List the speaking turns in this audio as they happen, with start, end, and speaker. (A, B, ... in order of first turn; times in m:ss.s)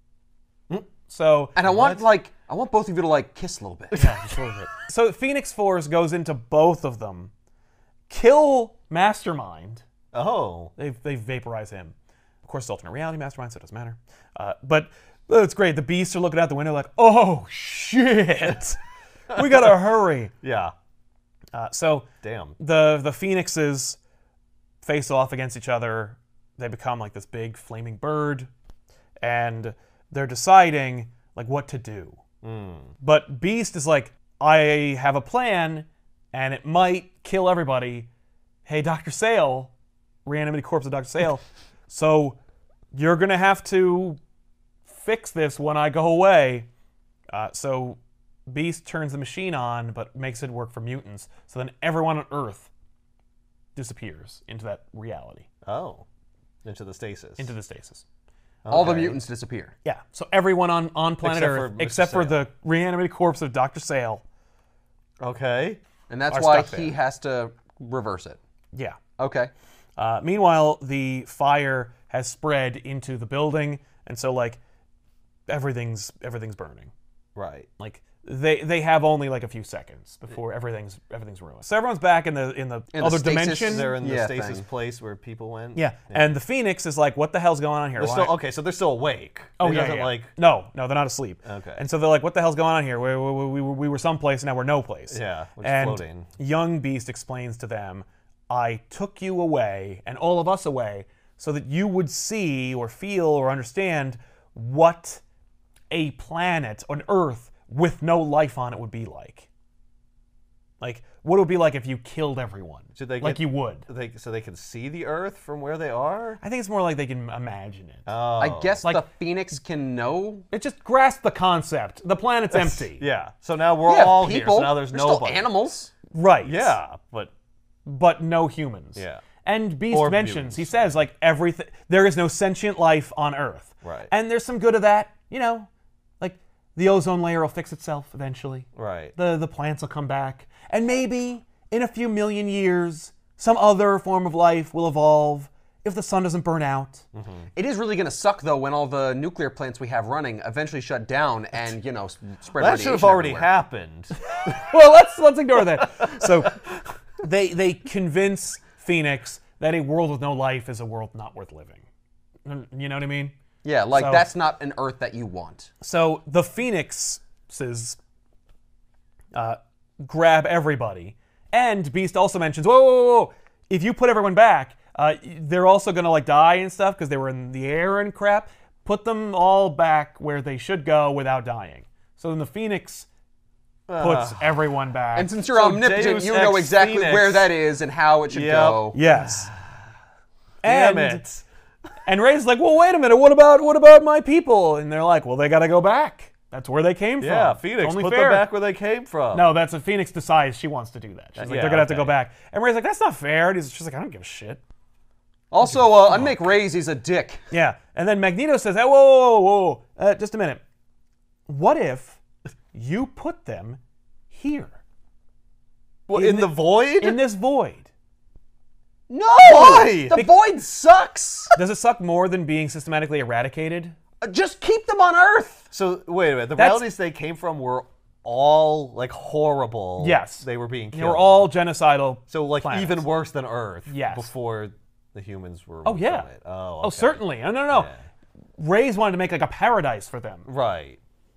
0:01.1-0:01.6 A
0:01.6-0:04.0 B
0:01.6-0:02.0 C
0:03.9-0:04.6 C
0:03.9-0:07.3 A
0:08.1-0:09.8 A
0:10.1-0:10.7 C
0:10.8-0:18.8 A
0:19.3-0:20.3 A
0:19.3-0:19.7 C
0:20.4-0:20.7 C
0:21.5-0:24.0 A
0:22.2-0:22.6 C
0:24.8-0:28.5 A
0:29.2-0:32.2 A
0:32.4-0:32.9 C
0:33.0-0:38.1 A
0:38.6-0:39.7 A
0:40.2-0:42.4 A
0:42.9-0:44.2 A
0:44.9-0:46.7 A
0:47.3-0:52.7 A
0:53.7-0:55.5 A
0:55.6-0:56.0 C
0:56.6-0:57.5 C
0:57.4-0:58.0 A
0:58.6-0:59.2 C
0:58.7-0:59.7 B
0:59.8-1:04.2 A
1:01.2-1:02.4 C
1:05.2-1:05.8 C
1:06.1-1:08.4 B
1:06.3-1:06.9 A
1:09.2-1:09.5 B
1:10.0-1:14.6 A
1:15.5-1:16.9 A
1:17.3-1:17.7 C
1:17.8-1:23.9 A
1:22.9-1:24.6 B
1:23.6-1:26.4 C
1:25.7-1:28.3 A
1:28.0-1:30.3 C
1:29.6-1:45.2 A
1:31.4-1:31.8 C
1:35.1-1:36.3 C
1:45.9-1:49.5 A
1:50.8-1:53.8 A
1:53.0-1:56.4 C
1:56.4-1:58.1 A
1:58.0-1:58.8 C
1:58.4-2:00.5 B
2:00.5-2:03.0 A
2:02.5-2:05.5 C
2:03.8-2:05.9 B
2:06.1-2:06.8 A
2:06.4-2:07.3 C
2:07.8-2:15.7 A
2:09.0-2:09.2 C
2:09.9-2:10.9 C
2:13.8-2:14.1 C
2:16.2-2:27.0 A
2:18.8-2:19.1 C
2:27.1-2:27.5 C
2:27.5-2:33.5 B
2:32.6-2:34.1 C
2:34.3-2:36.7 A
2:36.0-2:36.3 C
2:37.2-2:41.8 A
2:42.4-2:43.3 A
2:43.6-2:45.7 B
2:43.9-2:44.2 A
2:45.8-2:48.0 A
2:49.3-3:03.1 A
3:03.9-3:04.5 C
3:04.0-3:05.3 A
3:05.1-3:09.0 B
3:05.5-3:07.5 C
3:08.3-3:09.8 C
3:08.9-3:09.5 A
3:10.6-3:11.2 A
3:10.6-3:11.4 C
3:12.0-3:18.5 A
3:17.2-3:19.5 C
3:19.3-3:24.6 A
3:21.4-3:22.2 C
3:25.5-3:27.4 B
3:25.6-3:26.3 A
3:27.5-3:30.6 A
3:31.5-3:32.2 A
3:32.7-3:33.8 A
3:34.3-3:34.8 A
3:36.1-3:37.2 C
3:36.1-3:37.9 A
3:39.1-3:41.5 B
3:39.4-3:40.2 C
3:41.6-3:43.9 A
3:44.2-3:45.7 B
3:45.7-3:51.5 C
3:46.6-3:46.9 A
3:50.0-3:53.1 A
3:52.3-3:58.0 C
3:53.8-3:54.3 A
3:55.8-3:56.3 A
3:56.8-3:57.9 A
3:58.6-4:00.5 A
4:00.4-4:01.0 C